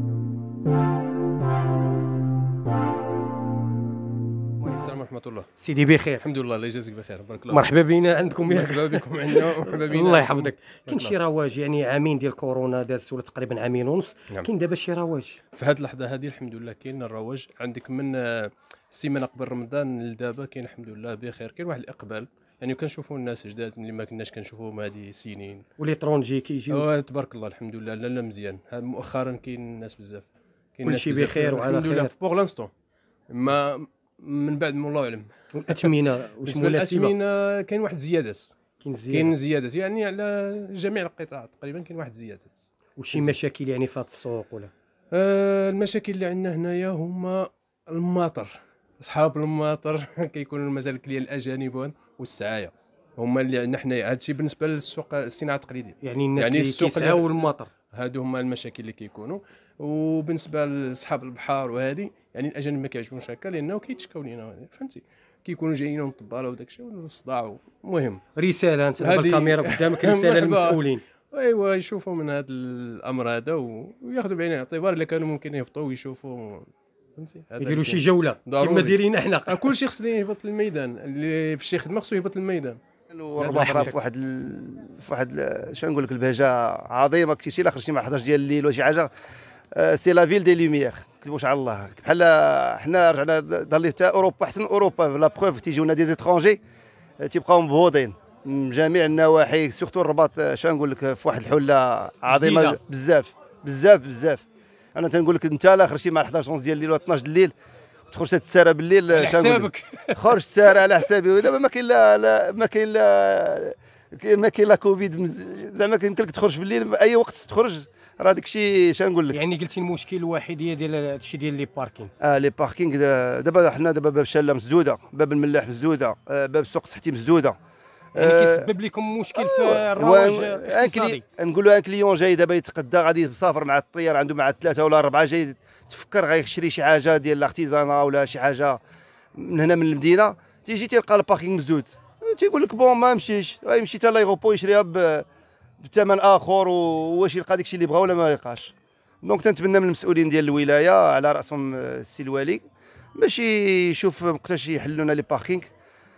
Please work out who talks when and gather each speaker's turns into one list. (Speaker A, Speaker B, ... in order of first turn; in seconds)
Speaker A: 4.6-5.5, 6.2-7.7, 8.4-11.2, 15.5-25.6, 26.7-32.7, 33.3-38.5, 39.1-42.6, 43.1-43.4, 45.1-68.2, 69.0-82.8, 83.4-83.9
Speaker B: 5.6-6.2, 7.5-15.4, 25.8-26.9, 30.8-32.1, 35.5-37.1, 38.8-39.4, 43.0-44.7, 56.0-57.7, 68.3-71.0, 77.6-79.6, 83.5-83.9, 102.3-102.8, 109.1-110.3, 119.3-122.1, 128.2-131.2
Speaker C: 83.1-89.1, 89.8-96.6, 97.2-104.4, 105.0-107.5, 108.1-119.4, 122.2-127.5, 128.1-128.7, 129.4-138.8, 139.3-145.2, 145.8-152.6, 153.2-155.7